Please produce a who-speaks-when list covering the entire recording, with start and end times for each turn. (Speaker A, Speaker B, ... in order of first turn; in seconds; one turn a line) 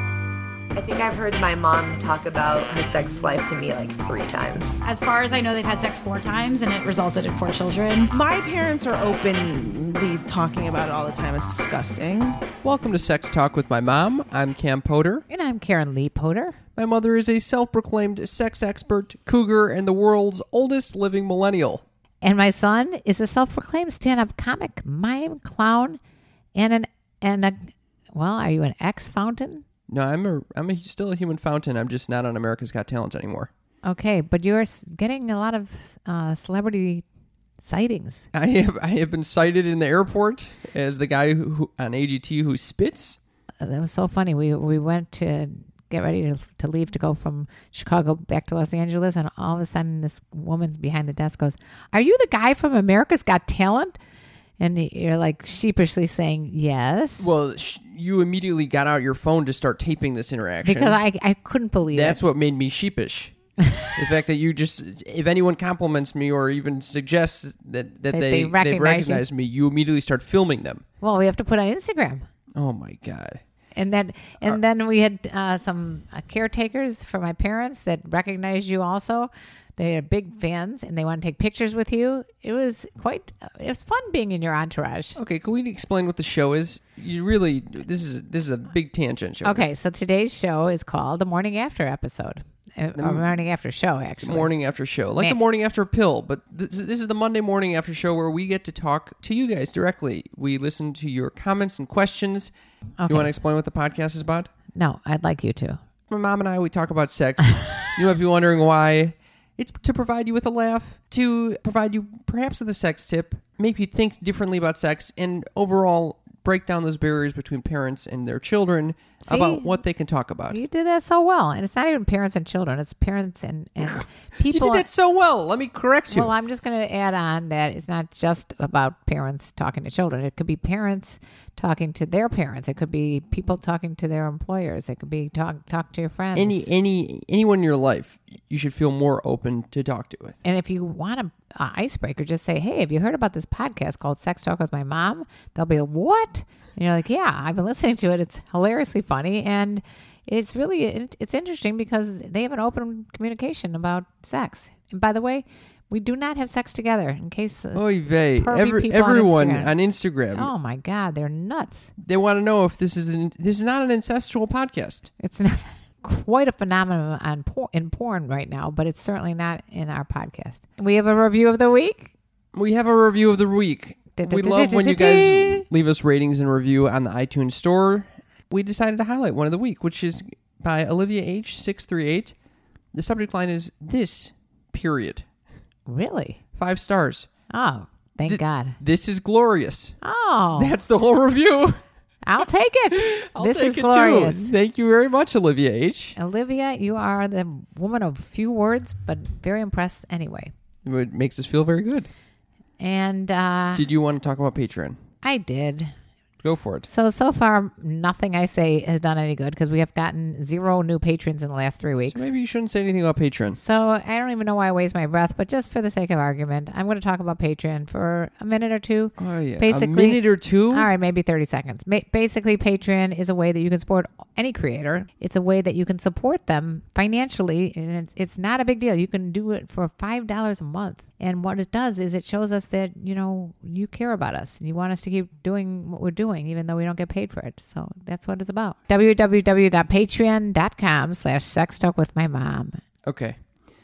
Speaker A: 0.8-4.8
Speaker B: 4.8-8.1
Speaker C: 8.1-12.4
Speaker D: 12.6-15.3
Speaker E: 15.3-16.6
Speaker D: 16.8-21.8
Speaker E: 22.2-26.0
Speaker E: 26.6-29.6
Speaker D: 29.9-33.5
Speaker E: 33.8-37.0
Speaker E: 37.6-38.3
Speaker D: 38.3-43.2
Speaker E: 43.6-54.0
Speaker E: 54.6-57.3
Speaker D: 57.2-61.0
Speaker E: 60.6-62.3
Speaker D: 61.9-63.3
Speaker E: 63.6-64.0
Speaker D: 64.0-70.8
Speaker E: 68.1-69.2
Speaker E: 71.0-72.3
Speaker D: 72.6-73.4
Speaker E: 73.8-85.2
Speaker D: 85.2-89.6
Speaker E: 89.4-94.5
Speaker D: 93.0-93.3
Speaker D: 94.2-102.5
Speaker E: 103.0-103.3
Speaker D: 103.1-104.5
Speaker E: 104.7-105.8
Speaker D: 106.1-120.6
Speaker E: 119.2-119.8
Speaker E: 120.5-124.9
Speaker D: 123.8-126.3
Speaker E: 126.1-136.7
Speaker D: 136.3-140.4
Speaker E: 140.4-159.7
Speaker D: 157.8-160.5
Speaker E: 160.3-161.9
Speaker D: 162.0-165.1
Speaker E: 165.2-172.1
Speaker D: 172.5-182.3
Speaker E: 174.2-175.7
Speaker D: 182.9-185.2
Speaker E: 185.9-186.4
Speaker D: 186.6-187.3
Speaker E: 187.5-188.8
Speaker D: 188.3-189.9
Speaker E: 190.0-190.7
Speaker D: 190.6-191.8
Speaker E: 192.2-194.5
Speaker D: 192.9-196.2
Speaker E: 196.2-200.5
Speaker D: 200.8-202.1
Speaker E: 202.8-203.9
Speaker D: 203.8-205.0
Speaker E: 205.2-205.9
Speaker D: 206.4-206.9
Speaker E: 206.9-212.3
Speaker D: 212.1-213.6
Speaker E: 213.5-242.8
Speaker D: 219.2-220.9
Speaker D: 243.1-243.4